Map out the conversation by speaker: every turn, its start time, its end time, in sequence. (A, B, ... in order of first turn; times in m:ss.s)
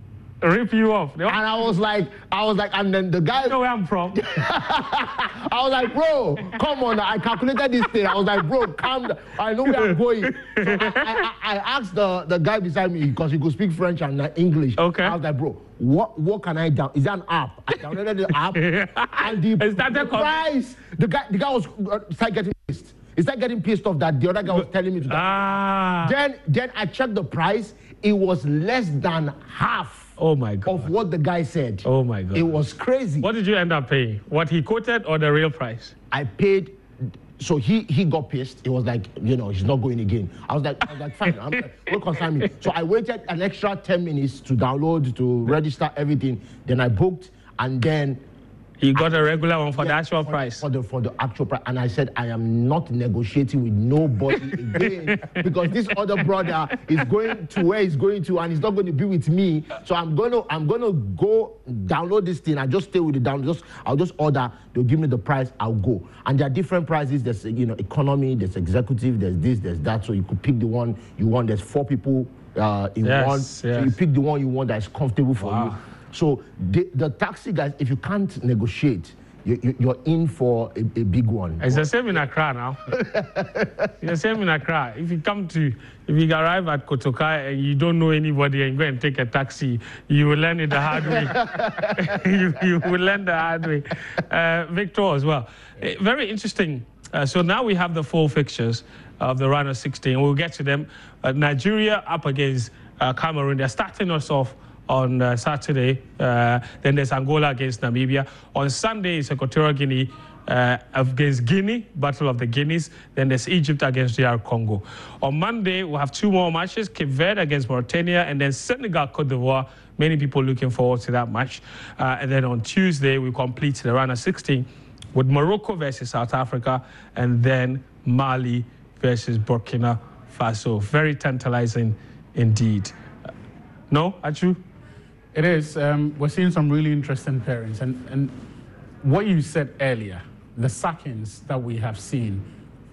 0:00.4-0:01.7 A
0:01.3-0:03.6 B
0:03.4-0:04.2 A
0:04.2-0:18.6 B
0:09.6-0:11.1 A
0:14.8-0:15.2 A
0:17.8-0:20.4 A
0:19.2-0:25.3 B
0:24.5-0:26.2 A
0:26.0-0:30.1 B
0:30.2-0:30.9 A
0:30.6-0:33.3 B
0:31.8-0:32.6 A
0:33.2-0:35.9 A
0:36.1-0:36.8 B
0:37.4-0:48.2 B
0:41.2-0:41.6 A
0:42.2-0:42.5 A
0:48.8-0:50.6 A
0:49.0-1:22.2 B
0:54.2-0:56.0 A
0:56.8-0:57.0 A
1:13.0-1:14.0 A
1:15.4-1:15.8 A
1:21.6-1:22.8 A
1:23.0-1:23.7 B
1:24.0-2:12.9 A
1:30.9-1:31.6 B
2:13.9-2:14.6 A
2:15.3-2:18.4 C
2:19.0-2:22.5 C